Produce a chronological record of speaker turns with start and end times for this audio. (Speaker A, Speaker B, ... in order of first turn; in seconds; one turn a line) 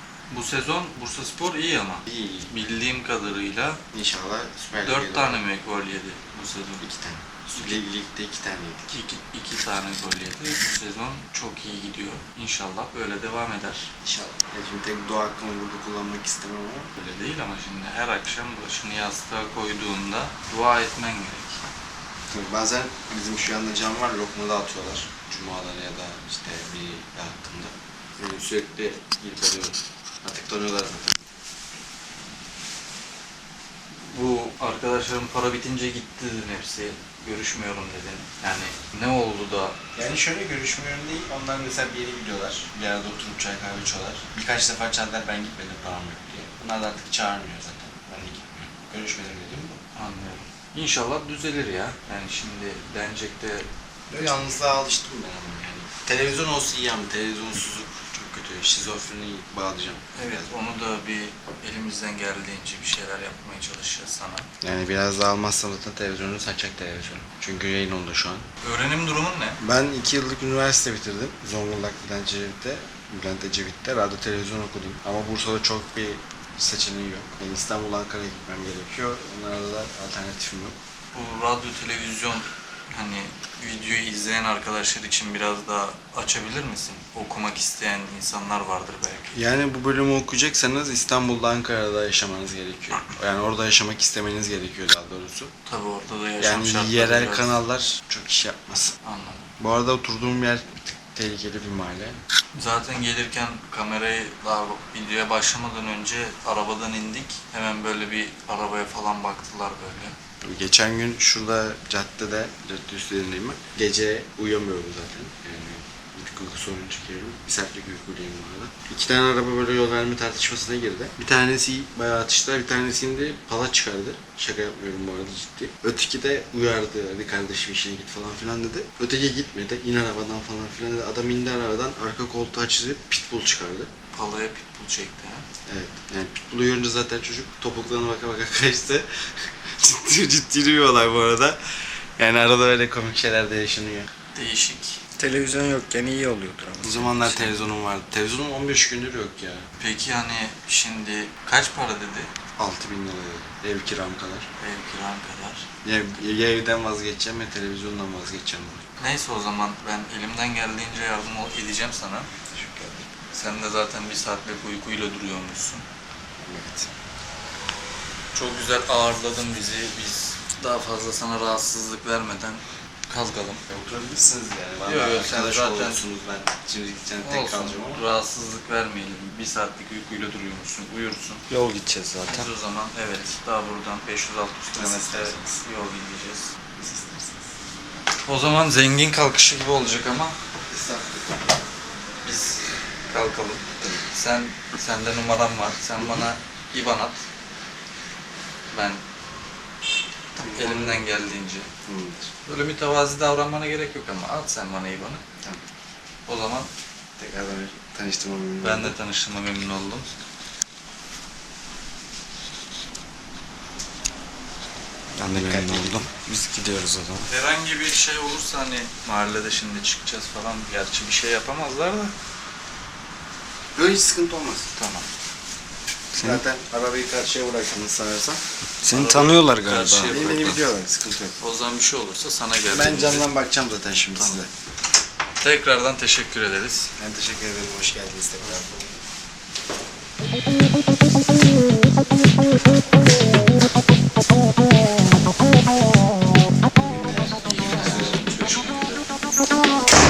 Speaker A: 0.3-3.8
Speaker B: 2.0-2.5
Speaker B: 3.9-5.4
Speaker A: 4.8-6.8
Speaker B: 6.8-8.9
Speaker A: 8.9-13.9
Speaker B: 14.0-16.9
Speaker A: 16.9-21.6
Speaker B: 22.3-31.3
Speaker A: 34.0-39.8
Speaker B: 39.9-49.8
Speaker A: 49.9-53.7
Speaker B: 54.1-60.5
Speaker A: 60.1-64.5
Speaker B: 64.6-68.5
Speaker A: 68.6-69.6
Speaker B: 69.6-80.8
Speaker A: 81.1-89.4
Speaker B: 89.3-95.5
Speaker A: 95.7-97.6
Speaker B: 96.4-98.9
Speaker A: 99.0-99.5
Speaker B: 99.6-102.2
Speaker A: 102.5-110.2
Speaker B: 110.4-133.9
Speaker A: 134.1-135.5
Speaker B: 135.7-144.1
Speaker A: 144.3-145.0
Speaker C: 145.2-147.3
Speaker B: 146.8-149.7
Speaker A: 149.8-152.3
Speaker B: 152.6-154.5
Speaker A: 154.6-155.7
Speaker B: 155.8-158.9
Speaker A: 159.0-162.3
Speaker B: 162.5-163.1
Speaker A: 163.3-165.8
Speaker B: 166.4-166.9
Speaker A: 168.3-173.6
Speaker B: 173.7-178.0
Speaker A: 174.8-176.0
Speaker A: 177.2-181.4
Speaker C: 181.5-182.5
Speaker A: 182.3-186.5
Speaker B: 184.7-185.6
Speaker B: 186.7-187.6
Speaker A: 188.2-190.4
Speaker B: 190.7-191.6
Speaker A: 192.2-197.2
Speaker A: 198.7-199.0
Speaker B: 200.4-201.3
Speaker A: 200.4-201.7
Speaker B: 201.8-202.3
Speaker A: 202.4-205.2
Speaker A: 206.3-206.7
Speaker B: 207.2-208.9
Speaker A: 208.6-210.1
Speaker C: 215.2-217.3
Speaker B: 215.3-216.1
Speaker A: 217.3-222.1
Speaker B: 223.7-224.7
Speaker A: 224.7-225.1
Speaker C: 226.1-226.4
Speaker B: 226.2-228.4
Speaker C: 228.8-230.6
Speaker A: 228.8-230.5
Speaker B: 230.0-231.4
Speaker A: 231.4-233.3
Speaker B: 232.7-234.5
Speaker A: 235.4-236.9
Speaker B: 237.0-239.0
Speaker B: 246.7-248.3
Speaker A: 247.6-249.1